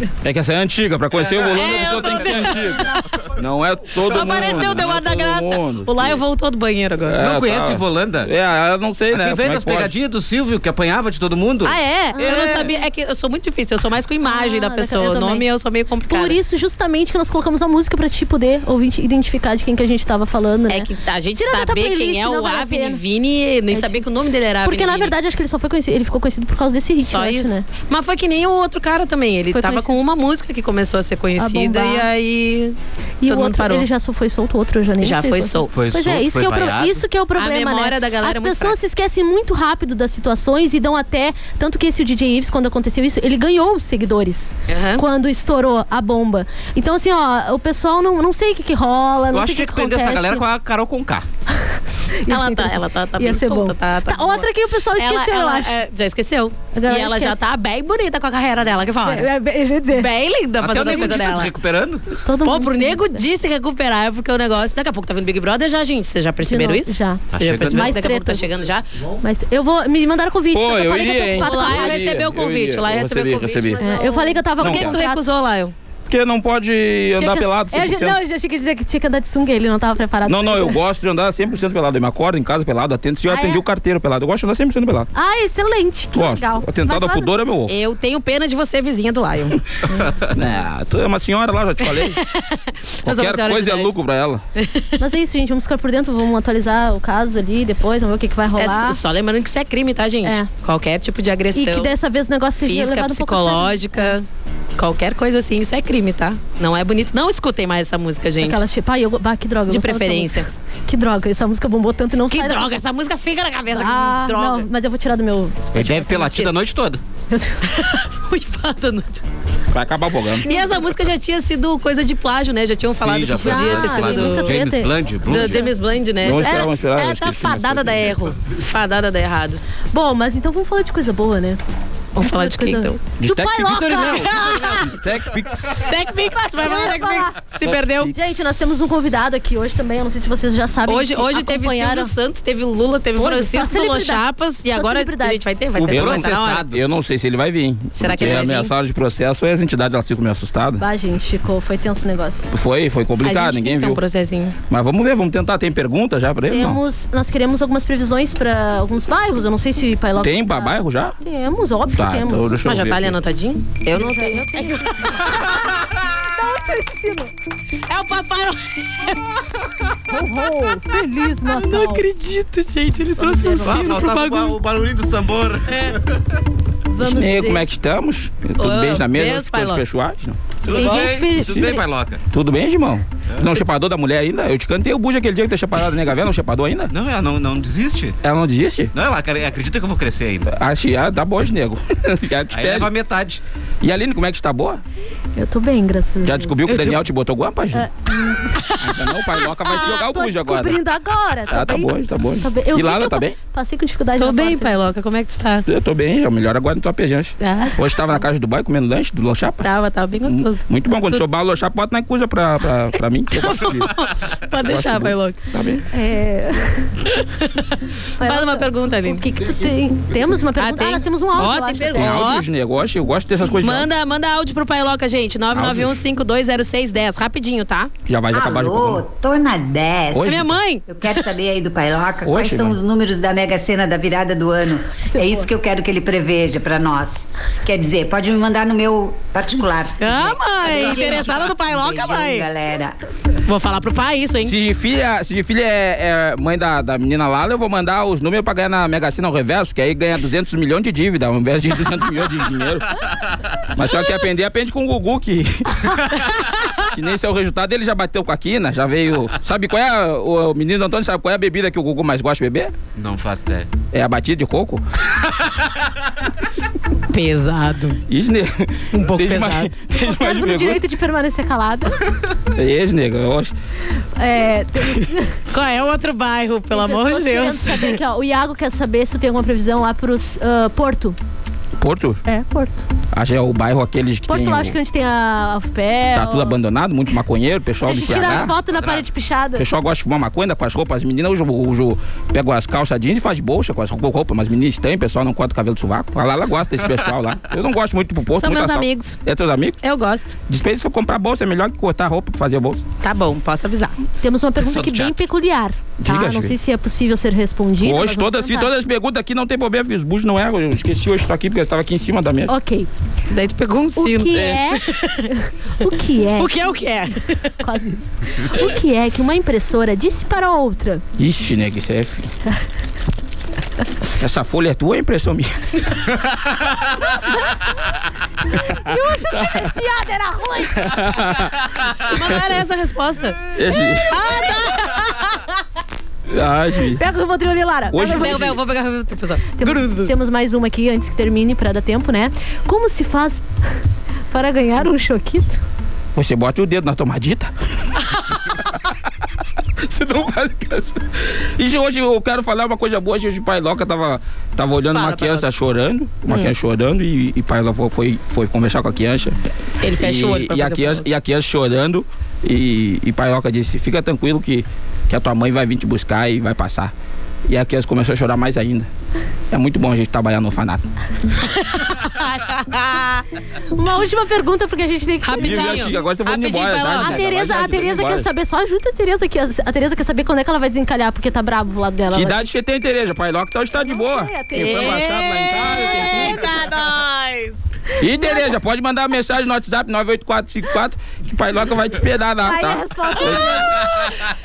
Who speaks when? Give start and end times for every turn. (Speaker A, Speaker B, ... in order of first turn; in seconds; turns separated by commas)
Speaker A: 0.2-6.2, Speaker B: 1.1-2.2, Speaker C: 1.5-2.9, Speaker C: 4.0-7.2, Speaker A: 7.1-9.9, Speaker B: 7.2-8.3, Speaker B: 9.1-12.7, Speaker C: 11.6-16.4, Speaker D: 12.1-12.7, Speaker D: 14.2-15.4, Speaker D: 16.1-23.0, Speaker C: 20.7-25.1, Speaker D: 23.7-24.1, Speaker D: 24.6-27.6, Speaker C: 27.0-32.8, Speaker D: 29.5-29.9, Speaker D: 31.4-32.1, Speaker D: 33.2-50.5, Speaker C: 33.3-33.9, Speaker C: 35.0-35.7, Speaker B: 35.7-37.0, Speaker C: 37.4-38.8, Speaker C: 44.7-45.0, Speaker B: 49.3-51.2, Speaker D: 52.2-55.7, Speaker C: 52.3-59.3, Speaker D: 56.7-57.4, Speaker D: 59.0-60.1, Speaker C: 59.9-61.5, Speaker B: 60.6-62.0, Speaker D: 62.2-63.2, Speaker C: 62.4-68.9, Speaker D: 66.4-68.5, Speaker B: 67.3-68.0, Speaker D: 69.2-72.2, Speaker A: 70.5-73.8, Speaker C: 71.4-75.7, Speaker D: 73.8-75.2, Speaker A: 74.6-75.0, Speaker A: 76.1-78.2, Speaker D: 77.2-80.8, Speaker A: 80.2-85.1, Speaker D: 83.3-83.6, Speaker D: 85.1-87.3, Speaker A: 86.1-87.7, Speaker C: 87.7-89.6, Speaker A: 90.3-92.2, Speaker C: 91.9-93.9, Speaker A: 93.0-94.4, Speaker C: 94.6-95.0, Speaker D: 95.0-99.0, Speaker C: 98.6-101.9, Speaker D: 101.5-104.2, Speaker C: 102.6-104.2, Speaker C: 104.8-108.6, Speaker D: 108.4-112.7, Speaker C: 109.7-110.5, Speaker C: 112.3-114.7, Speaker D: 113.7-116.3, Speaker B: 115.7-117.0, Speaker C: 115.8-116.5, Speaker D: 117.3-117.6, Speaker C: 117.6-119.2, Speaker A: 119.7-120.5, Speaker C: 120.5-124.5, Speaker D: 120.5-120.8, Speaker B: 123.0-125.7, Speaker D: 123.3-125.7, Speaker C: 125.3-129.6, Speaker A: 126.2-128.1, Speaker D: 129.9-131.6, Speaker C: 132.1-133.0, Speaker D: 132.2-134.3, Speaker A: 133.2-134.3, Speaker C: 133.7-134.9, Speaker B: 133.7-134.2, Speaker A: 134.9-135.7, Speaker C: 135.8-138.1, Speaker D: 136.6-137.4, Speaker D: 138.0-142.1, Speaker C: 140.8-146.7, Speaker D: 143.2-145.6, Speaker A: 145.8-150.8, Speaker B: 145.9-146.6, Speaker C: 147.9-148.7, Speaker D: 150.8-152.5, Speaker A: 152.5-154.0, Speaker C: 153.2-154.6, Speaker A: 154.7-156.8, Speaker D: 156.5-162.6, Speaker A: 160.2-161.2, Speaker A: 161.9-163.1, Speaker C: 162.6-165.6, Speaker D: 163.9-165.5, Speaker D: 166.3-167.3, Speaker C: 167.9-169.2, Speaker D: 170.1-172.1, Speaker C: 171.5-174.6, Speaker D: 173.2-174.2, Speaker B: 173.6-175.8, Speaker C: 175.7-176.0, Speaker D: 176.9-177.6, Speaker A: 177.0-180.5, Speaker C: 178.6-179.8, Speaker B: 180.6-182.2, Speaker D: 180.7-181.8, Speaker A: 182.3-186.9, Speaker B: 183.3-183.6, Speaker B: 186.9-188.2, Speaker A: 188.2-188.9, Speaker B: 188.9-190.5, Speaker A: 190.5-192.9, Speaker B: 192.5-193.4, Speaker A: 193.8-194.8, Speaker D: 195.3-196.8, Speaker A: 196.2-197.9, Speaker C: 196.7-197.0, Speaker D: 197.7-198.5, Speaker C: 198.6-199.9, Speaker A: 198.8-200.8, Speaker D: 199.8-204.7, Speaker A: 201.5-203.4, Speaker C: 204.2-205.7, Speaker A: 205.7-209.7, Speaker C: 207.4-208.2, Speaker C: 209.6-211.2, Speaker A: 210.2-213.9, Speaker C: 213.3-215.4, Speaker A: 214.6-215.8, Speaker D: 215.9-216.9, Speaker C: 217.3-219.2, Speaker D: 218.2-222.2, Speaker C: 220.6-222.4, Speaker A: 221.9-223.9, Speaker C: 223.5-227.9, Speaker A: 225.5-226.0, Speaker A: 228.1-229.0, Speaker E: 228.3-230.3, Speaker A: 230.1-230.6, Speaker C: 230.2-231.2, Speaker E: 230.9-242.9, Speaker A: 232.2-232.8, Speaker D: 235.1-235.5, Speaker C: 240.0-242.5, Speaker D: 240.8-241.3, Speaker C: 243.4-244.6, Speaker A: 244.4-253.0, Speaker A: 253.7-256.0, Speaker A: 256.8-262.7, Speaker B: 262.9-263.7, Speaker A: 263.9-264.8, Speaker C: 267.1-268.0, Speaker A: 268.1-270.8, Speaker C: 268.9-269.8, Speaker D: 269.9-272.0, Speaker A: 272.5-273.5, Speaker D: 274.2-275.3, Speaker C: 275.5-278.0, Speaker D: 276.7-281.2, Speaker A: 281.8-282.2, Speaker D: 282.2-282.9, Speaker A: 283.1-284.8, Speaker D: 284.3-286.6, Speaker A: 286.1-288.5, Speaker D: 287.8-289.6, Speaker B: 288.6-289.1, Speaker A: 289.6-299.8, Speaker C: 298.4-299.2, Speaker C: 299.8-300.3, Speaker A: 300.5-302.8, Speaker C: 303.0-304.0, Speaker D: 304.2-308.7, Speaker B: 304.6-305.2, Speaker A: 306.0-306.6, Speaker A: 307.8-312.5, Speaker D: 312.5-312.9, Speaker C: 313.3-315.3, Speaker D: 313.9-316.8, Speaker C: 316.4-317.5, Speaker D: 317.6-321.0, Speaker A: 321.2-322.3, Speaker A: 324.2-325.5, Speaker D: 328.6-330.9, Speaker A: 330.8-331.5, Speaker C: 332.1-333.4, Speaker A: 333.5-334.2, Speaker C: 334.1-335.2, Speaker A: 336.3-337.0, Speaker D: 336.9-338.5, Speaker A: 337.9-338.6, Speaker C: 338.0-340.1, Speaker D: 339.6-343.4, Speaker D: 344.3-345.6, Speaker A: 346.1-347.5, Speaker A: 349.8-351.0, Speaker A: 351.6-359.4, Speaker C: 354.9-355.5, Speaker C: 359.8-361.1, Speaker A: 360.0-366.9, Speaker A: 367.5-368.9, Speaker A: 369.5-370.8, Speaker C: 371.4-373.2, Speaker D: 373.8-376.0, Speaker C: 375.2-377.2, Speaker A: 375.4-378.3, Speaker D: 376.9-382.4, Speaker A: 382.1-386.4, Speaker D: 383.8-386.5, Speaker C: 384.5-387.6, Speaker A: 388.0-393.6, Speaker D: 388.1-388.5, Speaker D: 392.4-393.7, Speaker C: 393.2-394.1